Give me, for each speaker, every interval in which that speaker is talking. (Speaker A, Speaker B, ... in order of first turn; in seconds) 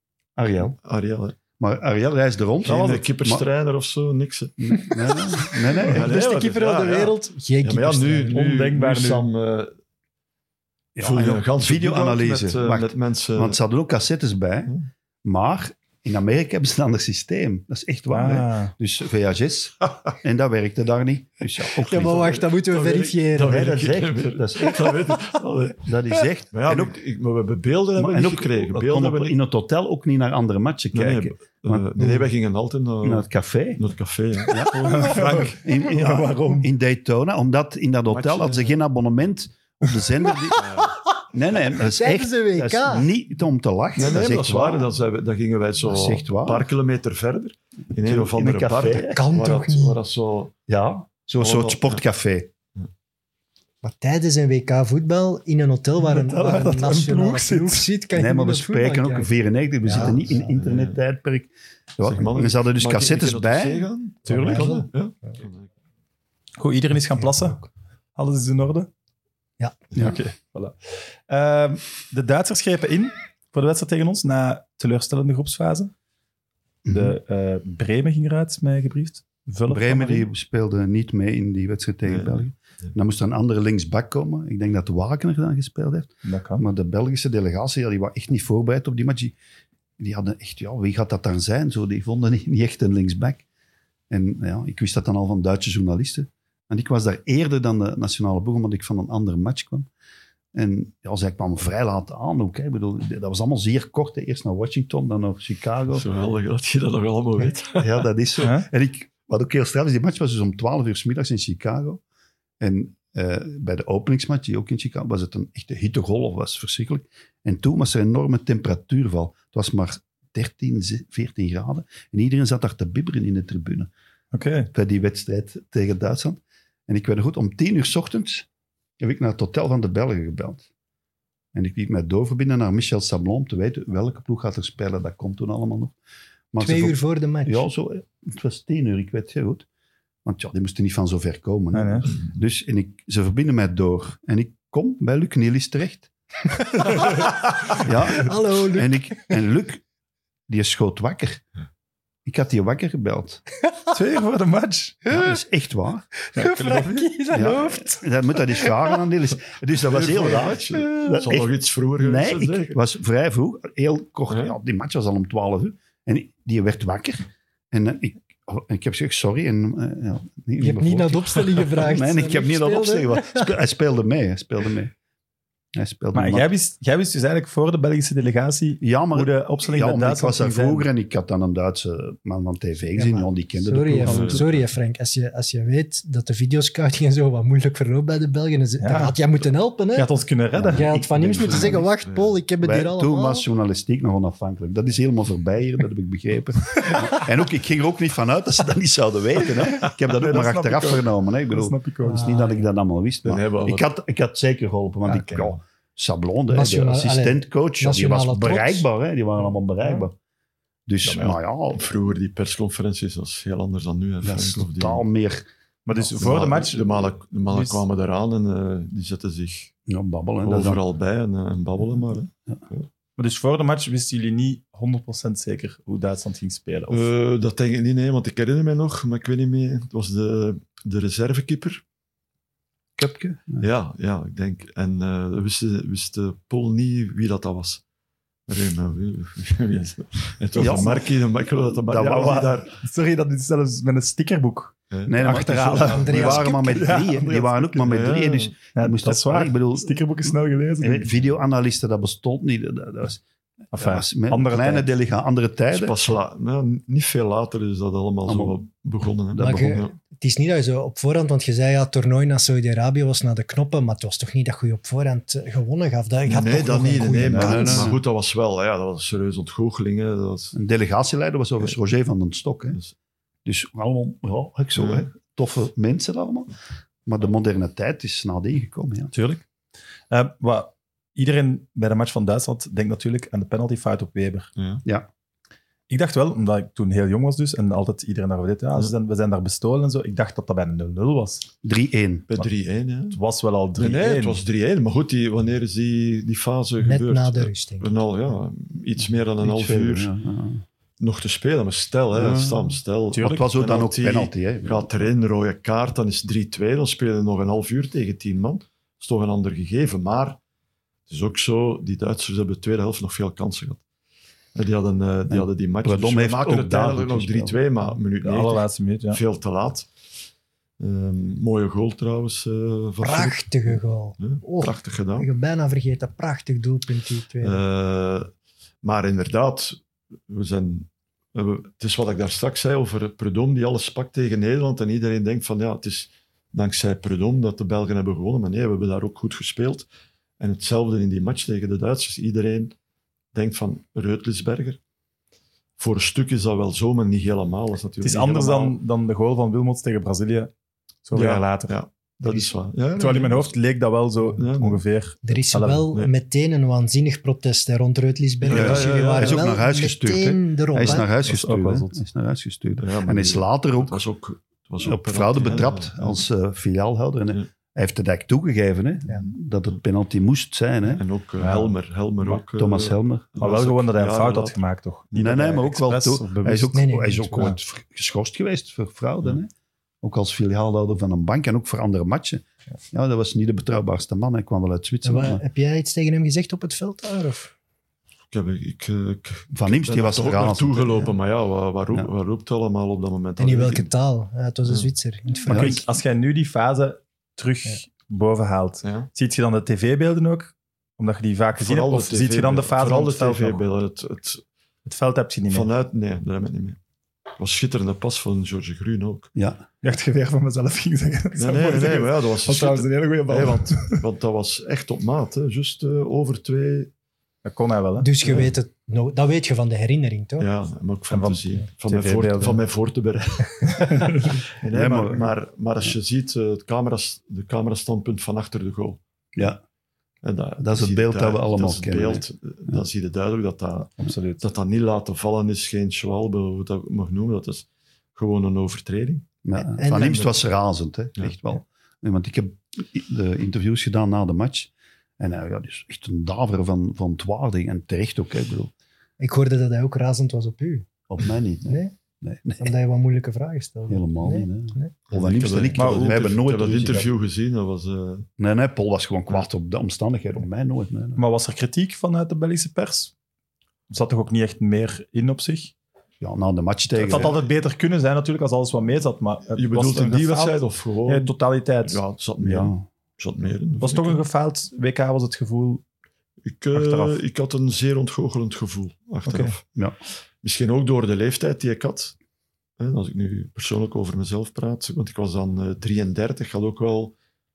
Speaker A: 0.4-0.8, 1.6-3.5, 4.6-6.1, 10.9-22.4, 23.4-24.9, 25.8-27.0, 28.0-32.3, 33.0-33.8, 34.4-40.6, 41.3-44.9, 45.9-46.7, 47.9-49.2, 50.7-52.5, 58.1-63.9, 76.8-77.2, 79.7-89.4, 90.0-93.4, 94.1-99.9, 100.5-106.1, 107.8-112.0, 112.6-123.9, 124.7-128.5, 129.0-130.7, 131.5-136.0, 136.5-139.7, 140.2-146.1, 147.7-149.8, 150.5-151.4, 152.2-153.4, 155.1-156.1, 157.3-174.9, 175.8-176.5, 178.8-184.4, 190.6-191.9, 192.6-210.1, 210.9-212.0, 214.2-215.4, 219.9-220.8, 233.0-233.7, 240.6-241.1, 241.7-242.5, 245.1-253.2, 253.7-256.2, 258.3-258.6, 259.3-259.9, 267.2-268.0, 270.5-272.8, 273.4-276.5, 277.1-279.1, 291.6-292.3, 299.4-300.6, 302.1-305.1, 315.3-317.8, 358.5-364.0, 364.8-371.0, 372.2-373.3, 375.1-379.5, 380.0-385.4, 389.5-391.1, 395.5-395.8, 409.4-409.6, 424.6-425.3, 429.4-429.6, 430.6-432.8, 439.4-448.7, 451.1-452.8, 453.9-457.1, 458.4-461.2, 466.2-467.4, 472.4-472.8
Speaker B: 0.8-1.4, 2.6-4.9, 5.8-9.7, 11.0-13.6, 22.0-25.9, 26.5-29.4, 30.9-35.6, 38.1-38.8, 40.6-40.9, 44.0-50.5, 51.4-52.0, 59.9-61.0, 62.0-65.7, 82.0-82.9, 105.9-108.1, 159.8-162.8, 184.0-184.5, 191.4-192.4, 203.2-203.9, 211.2-215.0, 216.2-219.7, 220.4-222.9, 226.9-231.8, 233.6-237.8, 238.5-242.7, 244.9-245.2, 246.1-246.4, 247.8-248.6, 255.7-259.9, 266.2-270.6, 274.8-275.1, 284.6-284.8, 292.3-293.2, 293.8-300.1, 301.0-310.4, 311.1-313.8, 314.6-319.9, 320.8-325.3, 327.4-328.3, 328.8-339.9, 340.4-342.7, 343.3-344.8, 345.8-348.8, 351.1-353.5, 354.3-354.8, 358.4-359.6, 362.8-366.2, 370.9-374.6, 388.3-393.9, 394.6-394.9, 398.8-399.1, 401.6-404.4, 405.5-406.8, 407.4-409.3, 411.4-416.9, 418.2-418.5, 420.4-429.0, 430.2-439.3, 439.9-440.4, 455.1-458.3, 469.6-471.3, 471.9-474.2, 476.4-479.6, 480.4-482.2, 482.8-487.1
Speaker C: 5.4-8.4, 21.8-23.8, 41.8-43.1, 49.1-50.0, 53.8-59.3, 59.9-60.2, 64.3-65.3, 67.2-67.6, 136.6-137.7, 146.8-147.3, 148.1-149.4, 156.3-159.0, 170.6-173.5, 183.0-190.1, 190.7-193.5, 202.1-202.7, 206.5-208.9, 245.9-247.0, 259.4-268.0, 296.8-298.0, 323.0-327.6, 355.2-361.1, 376.7-377.5, 385.0-387.5, 393.4-395.8, 418.0-420.5, 439.6-440.2, 449.2-450.9, 451.7-451.9, 452.6-454.9
Speaker D: 8.3-9.3, 18.1-18.7, 34.7-36.7, 56.0-57.9, 64.3-64.8, 66.6-67.6, 68.2-68.9, 70.0-75.9, 76.9-80.3, 86.2-86.7, 108.4-108.7, 124.3-124.7, 141.7-142.1, 153.9-155.0, 156.3-157.1, 176.1-180.9, 188.8-189.2, 189.9-190.9, 199.8-202.4, 211.1-211.3, 215.9-217.8, 223.2-227.1, 242.0-247.8, 248.8-251.2, 253.7-254.9, 279.1-279.4, 280.1-284.5, 285.9-291.5, 293.1-294.4, 303.1-303.5, 318.2-319.2, 348.0-350.5, 351.1-355.9, 360.9-362.0, 371.4-371.8, 373.4-377.6, 395.5-403.6, 404.9-405.7, 409.8-414.0, 417.4-418.1, 421.1-422.6, 423.8-424.2, 434.0-434.4, 455.8-456.2, 461.2-463.1, 463.9-465.7, 466.9-472.0, 473.8-475.8, 476.7-477.2, 479.3-479.6